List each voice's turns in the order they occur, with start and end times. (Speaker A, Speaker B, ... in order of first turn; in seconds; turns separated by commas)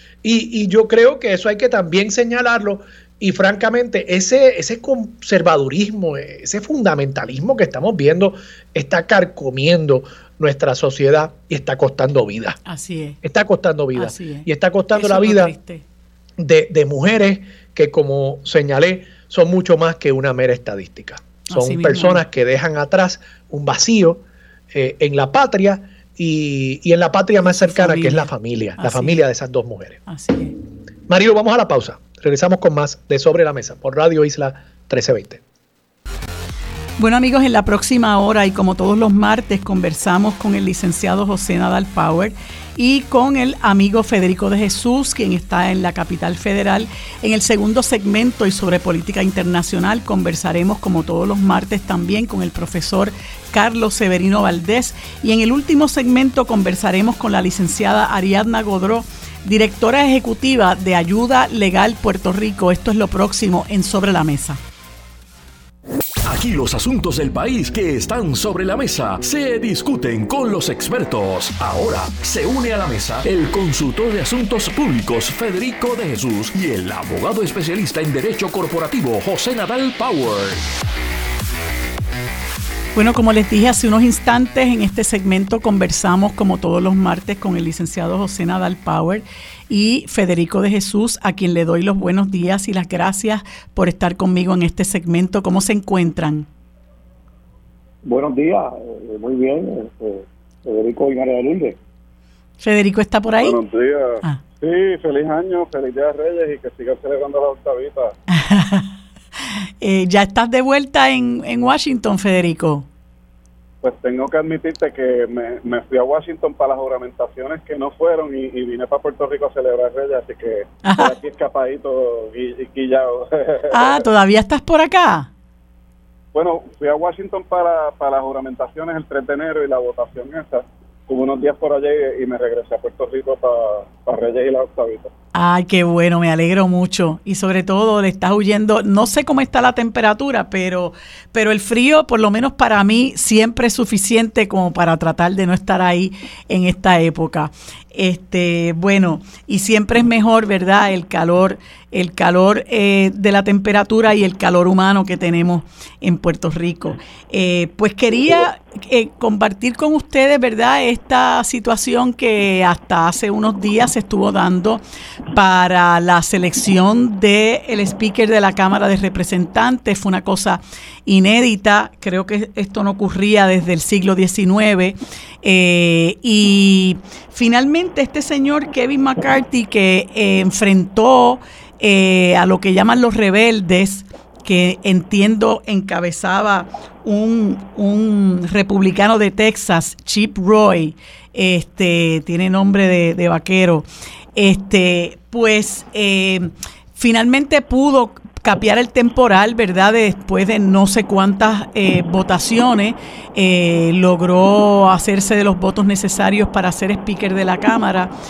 Speaker A: 0.2-12.6, Speaker B: 12.7-13.2, Speaker A: 13.2-15.5, Speaker B: 13.9-15.8, Speaker A: 16.4-30.0, Speaker B: 21.5-22.2, Speaker B: 27.5-29.2, Speaker B: 30.1-30.5, Speaker A: 31.1-35.4, Speaker B: 37.0-64.6, Speaker C: 66.2-80.7, Speaker B: 82.9-96.5, Speaker D: 98.0-101.8, Speaker B: 102.6-103.6, Speaker E: 103.4-108.1, Speaker B: 108.3-108.9, Speaker B: 109.8-112.8, Speaker E: 113.8-124.0, Speaker B: 120.8-121.1, Speaker B: 123.7-125.3, Speaker E: 126.3-135.1, Speaker B: 135.3-164.8, Speaker B: 165.3-193.8, Speaker B: 194.3-208.1